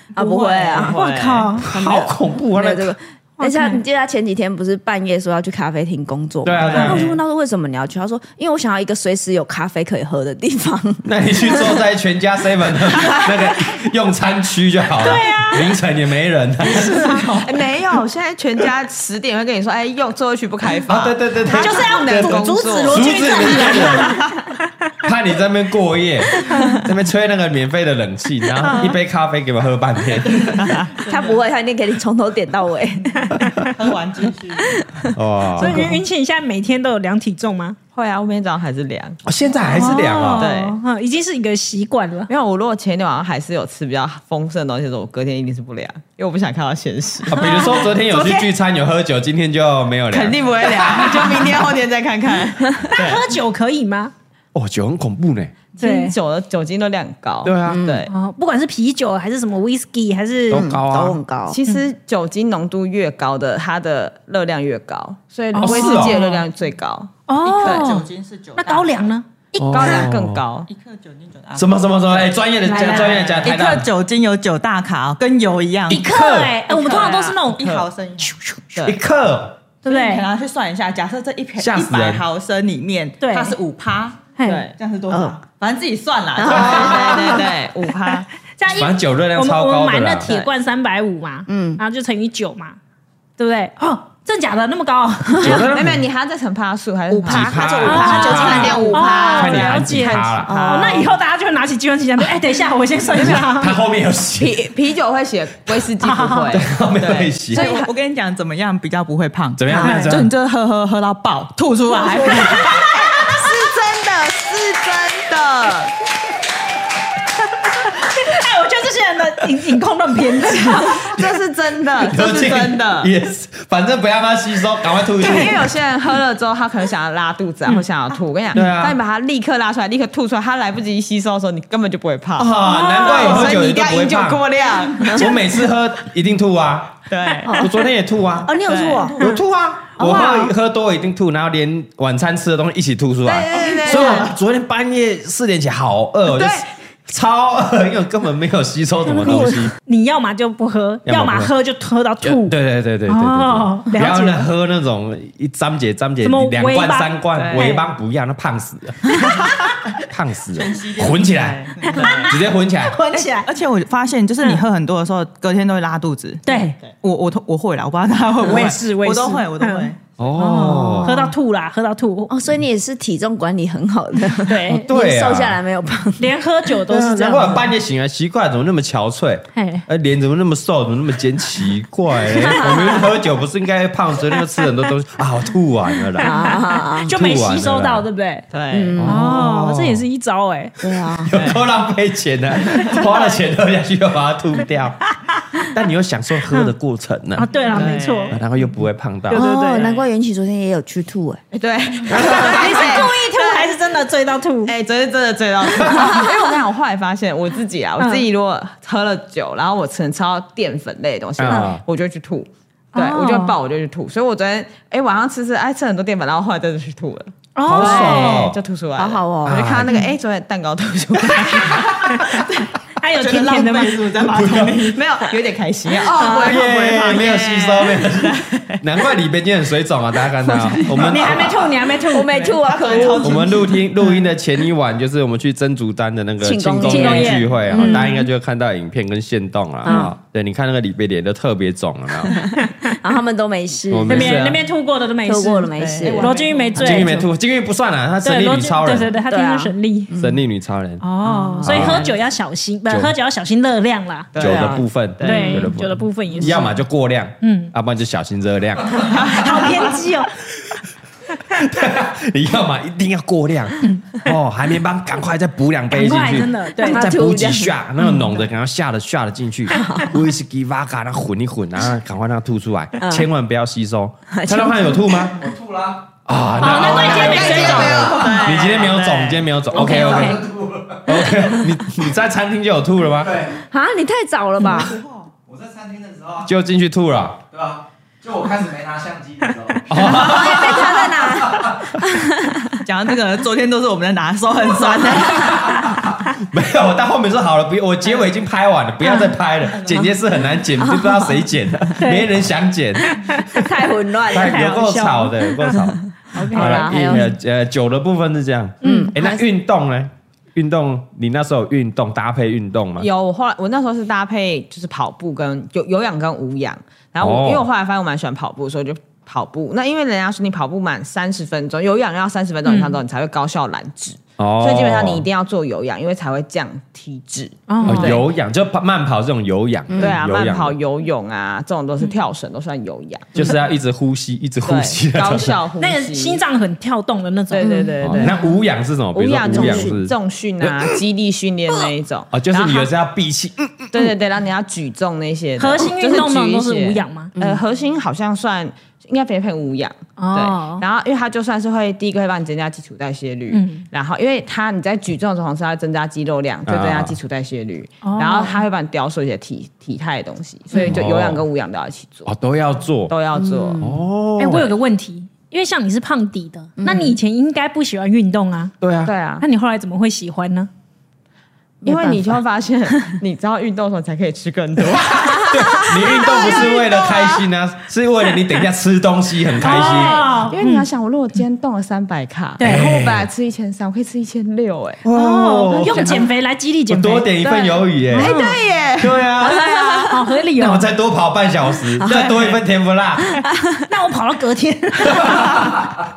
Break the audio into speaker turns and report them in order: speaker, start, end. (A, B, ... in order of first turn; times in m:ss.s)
0:00.2-0:01.0 A
0:00.2-0:01.6 B
0:00.8-0:01.7 C
0:01.6-0:11.8 A
0:01.6-0:03.0 D
0:03.4-0:03.8 C
0:06.4-0:07.1 D
0:06.6-0:07.2 B
0:11.0-0:17.1 D
0:15.0-0:15.7 C
0:16.7-0:17.3 C
0:17.3-0:24.3 B
0:20.9-0:24.2 D
0:21.5-0:24.7 C
0:25.0-0:30.6 D
0:26.5-0:26.8 C
0:28.6-0:28.9 C
0:30.4-0:31.4 E
0:31.1-0:33.7 A
0:33.7-0:34.8 E
0:35.1-0:36.0 D
0:35.6-0:37.8 C
0:37.9-0:39.2 B
0:39.2-0:40.5 D
0:39.7-0:42.3 C
0:40.4-0:40.8 B
0:42.3-0:47.7 B
0:47.3-0:50.4 D
0:47.3-0:48.5 C
0:50.1-0:53.2 B
0:52.9-0:54.1 C
0:54.5-0:55.6 D
0:55.8-0:58.1 B
0:55.8-0:56.2 C
0:57.4-0:57.9 D
0:57.7-0:58.0 A
0:58.1-1:00.7 C
1:00.5-1:01.2 D
1:00.5-1:01.6 A
1:01.5-1:07.9 B
1:05.5-1:06.4 C
1:05.6-1:06.2 D
1:07.3-1:10.0 C
1:07.4-1:08.9 E
1:09.6-1:10.4 D
1:09.7-1:10.7 B
1:10.7-1:16.0 E
1:11.6-1:13.9 D
1:12.6-1:13.4 C
1:15.9-1:16.6 D
1:15.9-1:18.6 C
1:16.7-1:18.4 E
1:16.7-1:17.4 B
1:18.8-1:19.6 D
1:19.8-1:20.3 C
1:19.9-1:27.5 E
1:21.6-1:22.2 D
1:23.2-1:23.6 C
1:24.4-1:24.7 C
1:24.4-1:24.8 B
1:25.1-1:25.4 A
1:26.4-1:27.5 A
1:26.5-1:28.3 B
1:26.5-1:27.0 D
1:28.6-1:32.8 C
1:28.7-1:30.3 D
1:30.3-1:30.5 B
1:31.5-1:31.8 A
1:33.4-1:35.7 C
1:35.3-1:35.6 A
1:35.4-1:36.0 D
1:35.6-1:41.1 B
1:37.1-1:39.0 A
1:37.2-1:40.6 D
1:37.8-1:43.8 C
1:38.1-1:39.4 E
1:40.5-1:41.0 A
1:43.1-1:44.6 D
1:44.4-1:47.9 B
1:46.0-1:46.6 C
1:46.5-1:47.6 D
1:47.5-1:52.8 E
1:49.6-1:50.3 D
1:49.8-1:50.1 C
1:51.9-1:53.4 C
1:52.5-1:55.9 B
1:57.9-2:01.0 C
2:00.9-2:03.1 B
2:02.0-2:05.6 D
2:05.2-2:15.4 B
2:08.5-2:09.0 D
2:12.4-2:14.5 D
2:12.6-2:13.5 C
2:15.1-2:17.0 D
2:17.1-2:17.7 B
2:17.6-2:18.6 D
2:18.4-2:19.2 A
2:18.6-2:19.2 B
2:19.2-2:29.7 D
2:20.0-2:20.5 A
2:23.2-2:24.3 B
2:23.9-2:24.2 A
2:26.3-2:26.7 B
2:29.1-2:32.5 C
2:31.1-2:31.5 D
2:32.2-2:39.4 D
2:33.1-2:34.4 C
2:36.2-2:37.8 C
2:37.4-2:37.7 B
2:40.0-2:43.0 D
2:40.5-2:42.3 E
2:41.8-2:43.5 C
2:43.1-2:50.0 E
2:46.4-2:46.8 C
2:48.4-2:52.3 C
2:50.2-2:51.3 D
2:50.7-2:51.3 A
2:52.3-2:56.4 A
2:54.5-2:54.9 C
2:54.7-2:55.6 D
2:56.2-2:57.7 C
2:56.9-3:06.4 D
2:59.6-2:59.9 C
3:02.3-3:02.7 C
3:02.6-3:03.0 A
3:06.2-3:07.2 A
3:06.2-3:08.5 C
3:07.0-3:08.1 D
3:08.5-3:09.0 B
3:08.7-3:09.2 A
3:08.9-3:10.0 D
3:09.0-3:10.7 C
3:10.8-3:11.3 A
3:11.3-3:15.0 D
3:11.3-3:11.6 B
3:15.7-3:19.5 D
3:17.4-3:18.4 C
3:17.7-3:18.4 B
3:19.3-3:19.9 C
3:19.3-3:21.4 A
3:21.5-3:23.8 B
3:22.1-3:22.6 D
3:22.1-3:24.8 C
3:24.6-3:42.7 B
3:28.0-3:28.3 C
3:31.4-3:31.8 D
3:32.9-3:33.6 C
3:37.6-3:38.5 C
3:37.7-3:38.6 D
3:39.0-3:40.0 A
3:39.4-3:40.0 D
3:42.0-3:42.5 C
3:43.0-3:44.1 C
3:43.2-3:45.0 E
3:44.2-3:44.9 D
3:44.9-3:48.8 B
3:46.1-3:46.6 A
3:46.2-3:51.7 D
3:50.5-3:51.1 B
3:51.1-3:52.6 C
3:52.1-3:53.7 A
3:52.3-3:53.8 E
3:52.8-3:53.2 B
3:53.2-4:02.4 D
3:56.4-3:58.3 A
3:56.8-3:58.2 C
3:59.8-4:00.1 A
4:02.6-4:02.9 C
4:02.8-4:04.4 A
4:03.9-4:04.6 D
4:04.1-4:07.2 C
4:05.2-4:07.3 A
4:05.8-4:06.1 B
4:05.9-4:06.8 E
4:06.8-4:09.1 D
4:08.2-4:10.1 C
4:09.2-4:10.4 A
4:10.2-4:11.0 D
4:11.0-4:14.3 C
4:11.6-4:12.0 A
4:11.6-4:12.1 D
4:12.9-4:13.1 D
4:14.3-4:15.7 B
4:14.4-4:19.6 D
4:14.4-4:14.8 A
4:15.2-4:16.8 C
4:17.4-4:17.7 C
4:19.2-4:20.3 C
4:19.2-4:19.5 B
4:21.5-4:35.4 D
4:23.8-4:24.2 C
4:25.9-4:27.1 C
4:26.8-4:28.2 A
4:29.7-4:30.2 A
4:33.0-4:33.3 A
4:34.3-4:35.4 A
4:35.4-4:36.1 F
4:36.3-4:40.4 D
4:36.6-4:38.1 C
4:36.6-4:40.1 B
4:37.5-4:38.2 F
4:39.7-4:41.3 F
4:40.1-4:40.4 A
4:41.0-4:43.4 D
4:43.2-4:43.6 F
4:43.7-4:45.0 A
4:44.7-4:45.3 E
4:45.5-4:46.5 F
4:46.4-4:47.4 D
4:47.5-4:50.4 F
4:49.9-4:51.1 D
4:50.1-4:52.8 A
4:52.8-4:55.8 E
4:56.4-5:03.4 D
4:59.0-4:59.3 C
5:00.8-5:01.4 A
5:02.0-5:02.3 C
5:03.5-5:04.7 A
5:04.3-5:06.0 D
5:04.4-5:05.7 C
5:06.3-5:07.0 C
5:06.5-5:07.3 A
5:06.5-5:13.1 D
5:06.6-5:07.2 B
5:08.8-5:09.1 C
5:08.8-5:09.4 A
5:13.0-5:28.2 B
5:17.2-5:17.7 D
5:22.6-5:23.0 C
5:24.4-5:25.3 D
5:27.7-5:28.2 C
5:27.8-5:30.8 D
5:29.9-5:30.2 A
5:30.0-5:33.6 B
5:33.4-5:35.6 D
5:34.6-5:36.4 B
5:35.8-5:37.9 C
5:37.5-5:38.4 B
5:37.6-5:38.3 A
5:38.0-5:40.9 D
5:39.1-5:42.9 B
5:39.4-5:40.0 A
5:42.3-5:44.1 D
5:43.9-6:02.3 B
5:45.6-5:47.3 C
5:50.2-5:50.8 C
5:53.5-5:53.8 C
5:56.7-5:57.2 D
5:58.0-5:58.6 C
6:00.8-6:01.4 D
6:02.3-6:03.1 D
6:03.1-6:03.8 B
6:03.3-6:04.0 A
6:03.8-6:04.7 D
6:04.4-6:08.7 C
6:06.8-6:07.2 A
6:08.8-6:09.1 D
6:09.0-6:09.4 B
6:09.4-6:10.7 C
6:11.8-6:12.4 A
6:11.8-6:17.5 B
6:14.8-6:20.2 D
6:19.6-6:20.9 C
6:19.6-6:25.0 B
6:22.6-6:22.9 C
6:22.6-6:23.3 D
6:25.0-6:26.3 D
6:25.1-6:28.6 C
6:25.9-6:26.2 A
6:26.9-6:28.4 D
6:28.3-6:30.2 B
6:29.0-6:29.8 D
6:29.5-6:30.1 A
6:30.1-6:30.9 C
6:30.6-6:33.4 D
6:32.0-6:32.5 A
6:33.2-6:33.8 A
6:33.9-6:35.7 C
6:35.0-6:35.8 D